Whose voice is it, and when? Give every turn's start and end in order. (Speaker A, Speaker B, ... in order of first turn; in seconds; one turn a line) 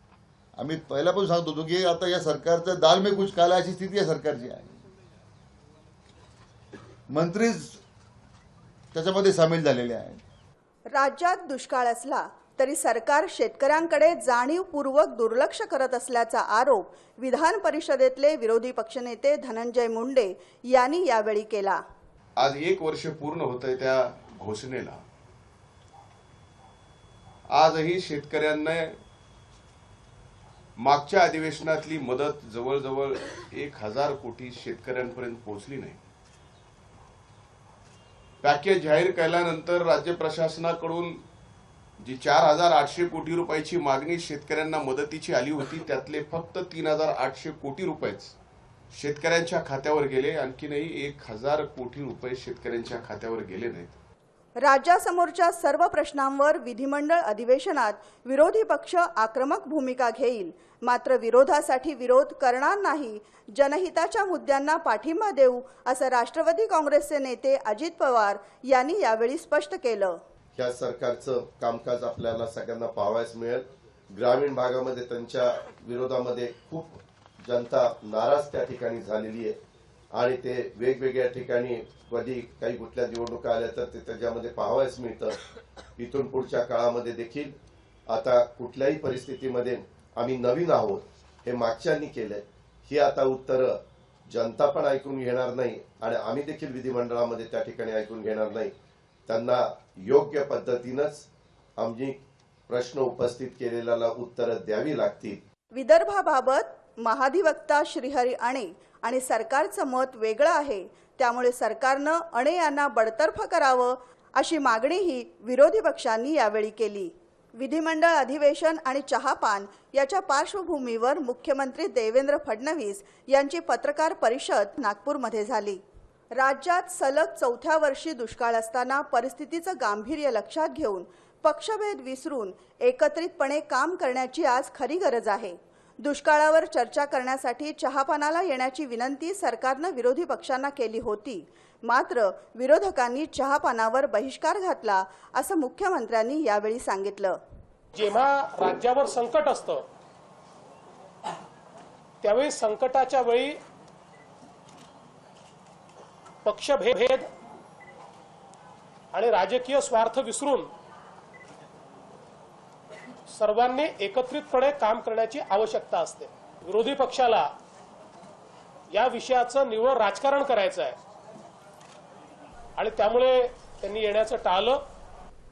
Speaker A: 0.6-4.7
Speaker A: 7.1-7.8
Speaker A: 8.9-10.2
Speaker B: 10.9-21.8
Speaker C: 22.4-25.0
Speaker C: 27.5-29.0
Speaker C: 30.8-36.0
Speaker C: 38.4-41.2
Speaker C: 42.0-48.3
Speaker C: 48.9-53.9
Speaker B: 54.6-70.2
Speaker D: 70.6-79.6
Speaker D: 80.1-85.4
Speaker D: 86.0-87.5
Speaker D: 88.1-98.7
Speaker D: 99.3-101.3
Speaker D: 101.8-105.4
Speaker B: 105.8-125.8
Speaker B: 126.3-147.4
Speaker E: 147.9-149.8
Speaker E: 152.2-153.6
Speaker E: 156.4-157.3
Speaker E: 159.1-160.7
Speaker E: 163.3-167.5
Speaker E: 168.9-170.9
Speaker E: 172.8-174.8